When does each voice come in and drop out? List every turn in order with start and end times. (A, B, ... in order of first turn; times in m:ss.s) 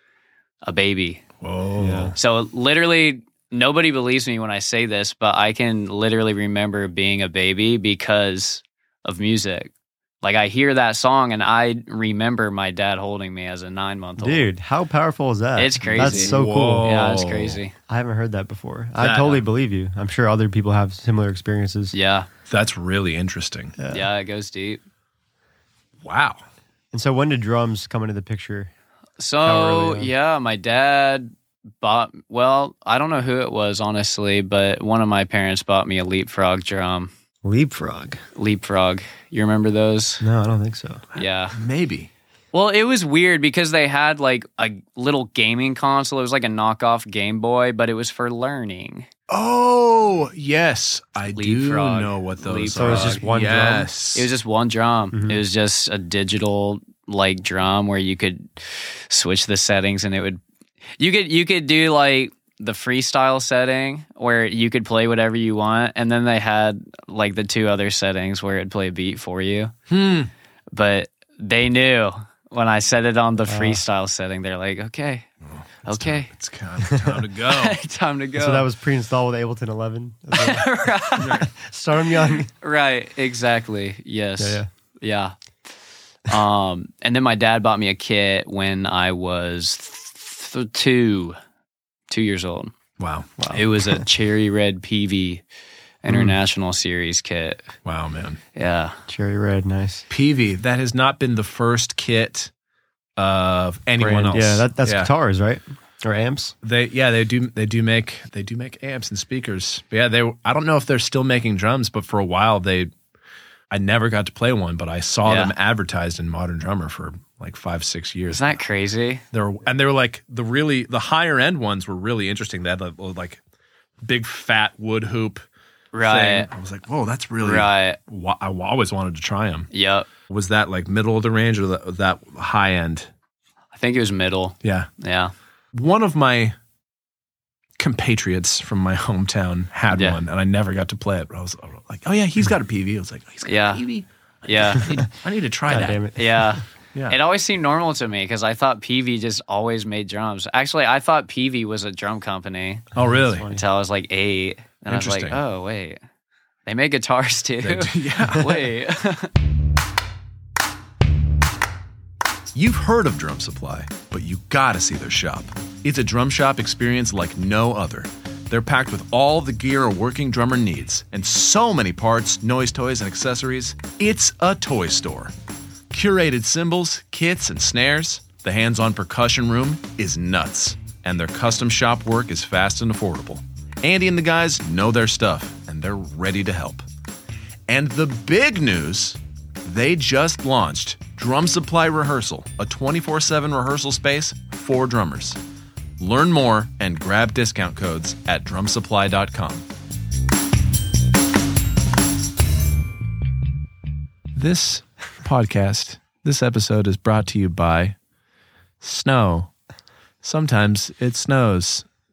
0:00.6-0:01.2 A
0:01.4-0:02.2 B
0:01.8-0:02.1 C
0:02.2-0:14.5 A
0:14.2-0:16.9 C
0:15.6-0:17.8 A
0:15.8-0:17.6 B
0:17.9-0:21.9 C
0:19.0-0:19.4 B
0:21.9-0:22.3 A
0:22.5-0:23.8 B
0:23.8-0:24.1 C
0:23.9-0:24.8 A
0:26.0-0:26.4 B
0:26.9-0:28.7 C
0:29.2-0:37.1 A
0:29.4-0:30.1 C
0:37.4-0:38.2 C
0:38.4-0:40.2 A
0:40.2-0:41.0 C
0:41.2-0:41.6 A
0:41.2-0:42.1 B
0:42.5-0:49.1 A
0:49.3-0:54.3 B
0:51.3-0:53.3 A
0:52.8-0:53.9 C
0:54.2-1:00.4 A
0:55.1-0:55.4 C
1:01.0-1:09.7 A
1:09.9-1:10.3 B
1:10.7-1:15.3 A
1:13.5-1:13.8 C
1:15.5-1:17.8 B
1:15.8-1:16.3 A
1:16.9-1:17.2 C
1:17.4-1:18.7 A
1:18.4-1:20.7 C
1:20.3-1:21.5 A
1:21.2-1:21.5 B
1:21.5-1:22.5 C
1:22.6-1:25.4 A
1:24.4-1:24.7 C
1:26.3-1:31.4 A
1:32.1-1:32.7 A
1:33.0-1:33.6 B
1:33.4-1:34.0 C
1:33.5-1:35.4 A
1:36.0-1:37.7 A
1:37.8-1:38.4 B
1:38.6-1:39.0 A
1:39.1-1:40.1 C
1:40.1-1:42.5 B
1:43.2-1:45.1 B
1:44.0-1:44.3 A
1:44.3-1:46.5 C
1:46.6-1:52.9 B
1:53.7-1:58.6 B
1:55.2-1:55.5 A
1:58.3-1:59.2 A
1:59.3-2:03.4 B
2:04.0-2:05.4 B
2:05.9-2:06.5 A
2:06.0-2:09.7 B
2:07.4-2:08.0 A
2:09.7-2:10.1 A
2:10.3-2:13.1 B
2:13.8-2:15.3 A
2:14.6-2:14.9 B
2:15.7-2:16.6 B
2:17.8-2:26.0 B
2:19.9-2:20.2 A
2:23.5-2:23.8 A
2:24.5-2:25.0 A
2:25.7-2:26.6 C
2:26.2-2:32.9 A
2:33.0-2:33.5 B
2:33.0-2:33.6 C
2:33.5-2:36.0 A
2:34.9-2:35.4 B
2:36.7-2:39.3 A
2:37.6-2:38.7 B
2:42.5-2:55.3 B
2:55.9-3:06.8 B
3:07.7-3:15.4 B
3:16.0-3:19.6 B
3:24.3-3:28.0 B
3:28.8-3:29.5 B
3:30.2-3:31.8 B